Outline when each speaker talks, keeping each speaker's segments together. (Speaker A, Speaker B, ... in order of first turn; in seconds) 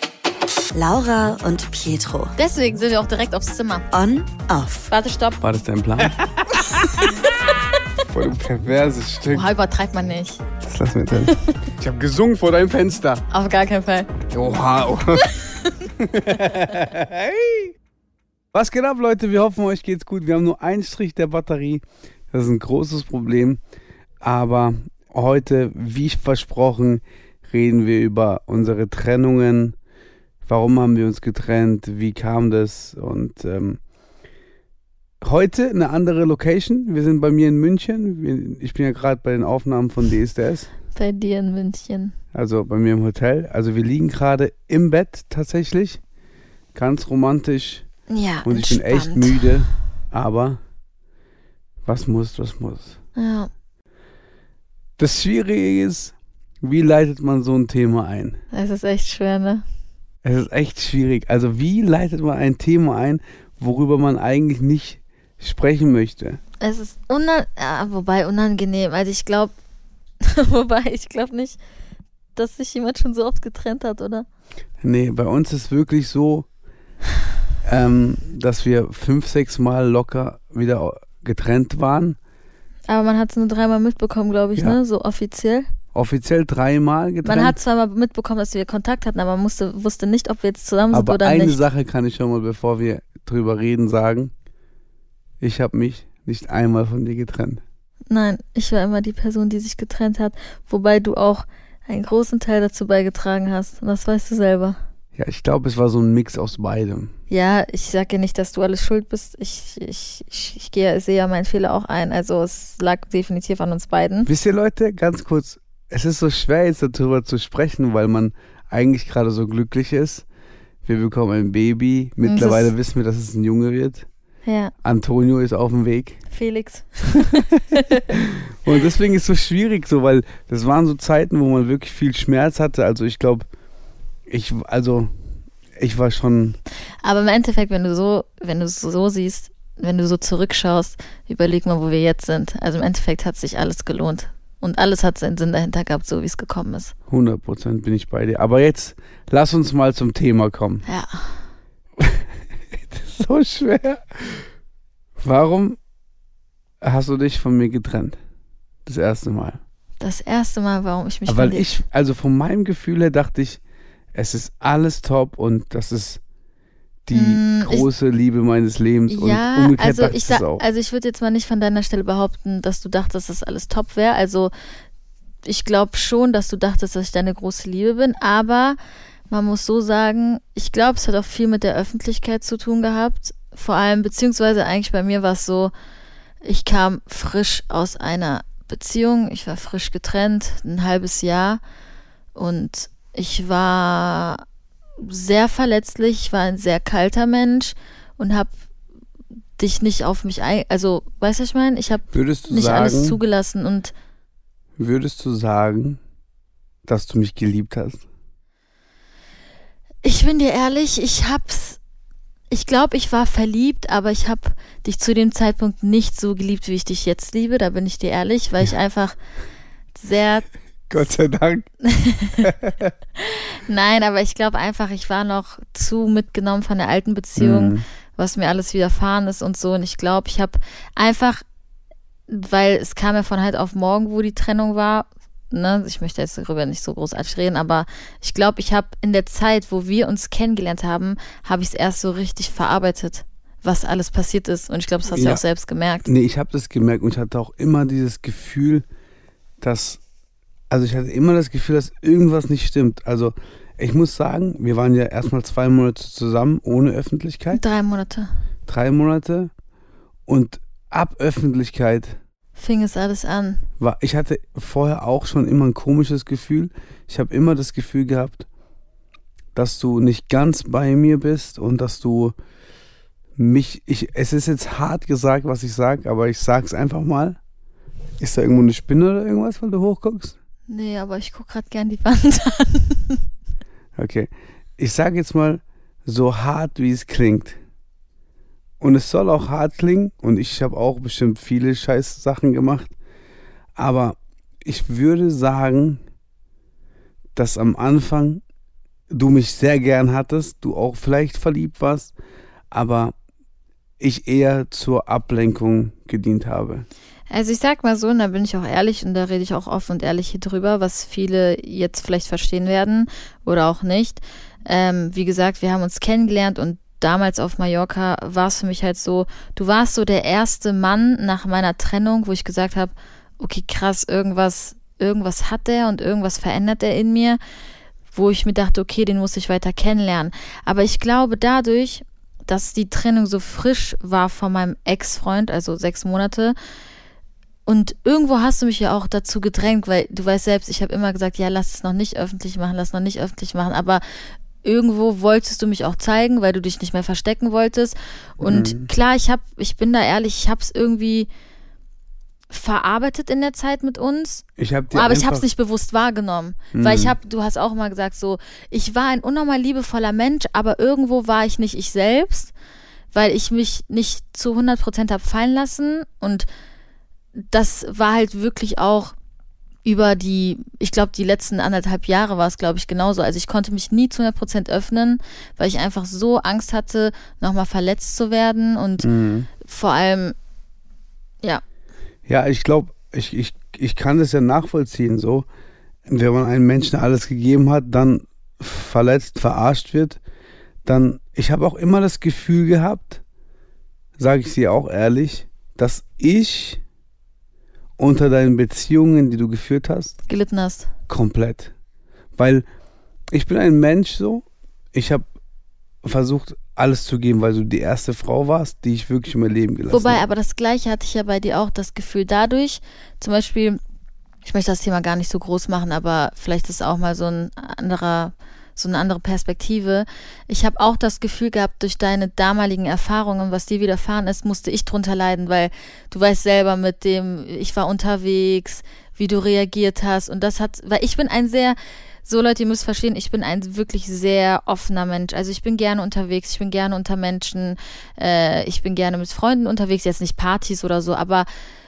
Speaker A: 0.8-2.4, 3.9-4.9
Speaker B: 2.4-3.9, 4.9-5.4, 7.1-7.5, 9.3-10.4, 13.3-14.1, 40.9-42.1, 48.1-49.5, 53.2-53.5, 58.5-59.6, 66.6-69.5, 70.2-71.6, 72.3-74.3, 82.9-85.7, 87.2-91.6, 98.1-104.8, 107.3-114.3, 122.2-122.7, 124.5-124.7, 126.3-128.0, 137.0-146.9, 150.9-151.3, 160.0-161.7, 167.1-167.9, 169.1-174.5, 175.4-178.8, 179.3-185.7, 186.4-191.6, 192.4-194.4, 195.0-198.5, 199.6-203.9, 210.0-211.8, 212.5-219.2, 219.9-220.5, 221.8-222.5, 223.2-231.4, 232.3-246.1, 257.5-258.3, 262.6-263.7, 280.7-283.2, 307.3-327.4, 328.1-336.6, 337.7-344.0, 344.6-351.3, 352.5-362.5, 363.1-366.5, 367.4-369.1, 369.9-379.1, 379.6-380.4, 400.3-400.9, 409.9-413.8, 414.4-441.5
Speaker C: 5.4-7.1, 8.1-9.5, 10.6-13.2, 14.2-15.3, 16.0-17.7, 18.5-23.6, 24.2-29.8, 30.4-33.8, 35.2-40.7, 42.3-46.0, 46.8-47.9, 48.4-50.6, 51.9-53.0, 55.0-58.4, 60.2-66.4, 74.8-76.5, 77.6-82.2, 85.9-87.6, 90.9-94.3, 95.4-97.6, 105.2-107.1, 114.3-120.3, 120.8-124.1, 124.8-126.2, 127.6-133.5, 134.3-135.1, 135.8-136.6, 147.1-150.8, 152.0-154.5, 155.2-155.8, 156.8-158.2, 158.9-159.6, 161.3-163.6, 164.1-166.2, 167.1-170.6, 202.1-203.2, 204.8-206.0, 206.9-208.0, 220.9-221.7, 222.4-222.9, 227.4-227.8, 245.1-245.4, 246.1-248.9, 249.6-250.0, 250.7-257.6, 258.7-259.5, 260.3-262.2, 263.8-268.5, 269.6-272.4, 273.4-277.4, 278.2-280.4, 284.0-287.6, 288.8-292.9, 293.8-296.0, 297.4-298.4, 299.1-302.1, 302.7-303.1, 304.0-306.9, 348.4-348.9, 354.6-355.5, 356.7-357.2, 379.0-379.5, 382.3-385.5, 386.1-390.2, 390.9-393.2, 394.2-396.8, 398.0-400.2, 401.1-401.7, 402.4-402.7, 403.3-405.2, 406.0-410.2